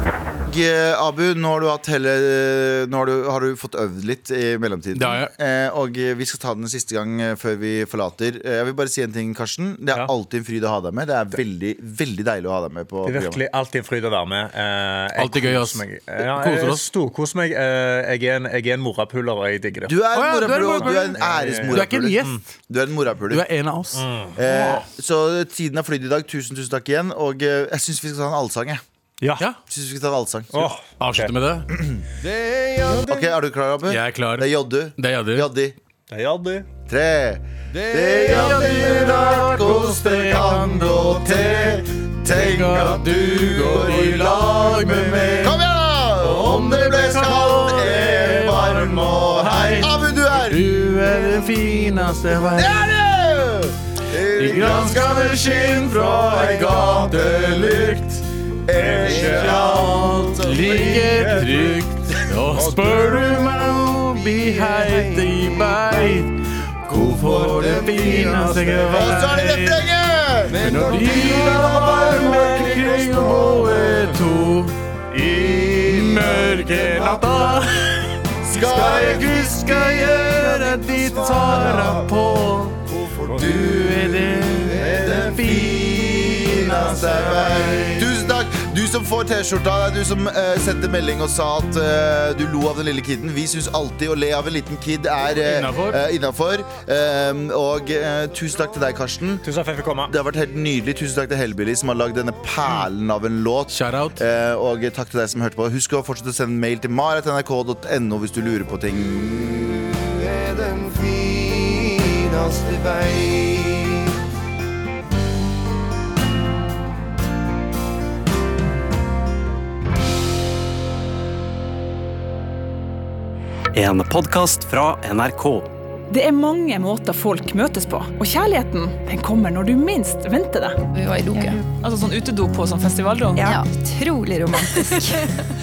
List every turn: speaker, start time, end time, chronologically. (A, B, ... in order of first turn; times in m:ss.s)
0:00.4-0:13.4 A
0:04.9-0:05.3 B
0:13.0-0:20.0 C
0:15.2-0:16.9 B
0:19.9-0:23.4 A
0:20.1-0:22.4 B
0:20.5-0:22.4 C
0:23.3-0:24.9 B
0:24.0-0:24.3 C
0:24.3-0:28.8 A
0:29.7-0:30.7 A
0:30.5-0:31.3 C
0:31.0-0:31.7 B
0:31.7-0:32.0 A
0:32.8-0:33.3 C
0:32.9-0:35.8 A
0:33.9-0:35.5 B
0:36.1-0:36.7 C
0:36.9-0:50.7 A
0:38.1-0:41.6 B
0:42.2-0:45.6 B
0:46.2-0:52.8 B
0:52.4-1:01.4 A
0:54.4-0:58.2 B
0:58.8-0:59.5 C
0:59.0-1:09.8 B
1:01.4-1:01.7 C
1:07.2-1:14.1 A
1:10.6-1:14.7 B
1:15.2-1:17.2 A
1:15.8-1:22.8 B
1:18.4-1:22.1 A
1:23.0-1:39.4 A
1:23.2-1:23.6 C
1:23.4-1:28.1 B
1:24.8-1:25.4 C
1:35.4-1:36.0 B
1:39.4-1:40.1 C
1:40.1-1:51.0 A
1:43.7-1:44.2 B
1:52.4-1:53.0 A
2:03.7-2:05.7 D
2:06.1-2:13.6 E
2:10.9-2:11.6 F
2:13.3-2:15.3 F
2:14.5-2:15.2 E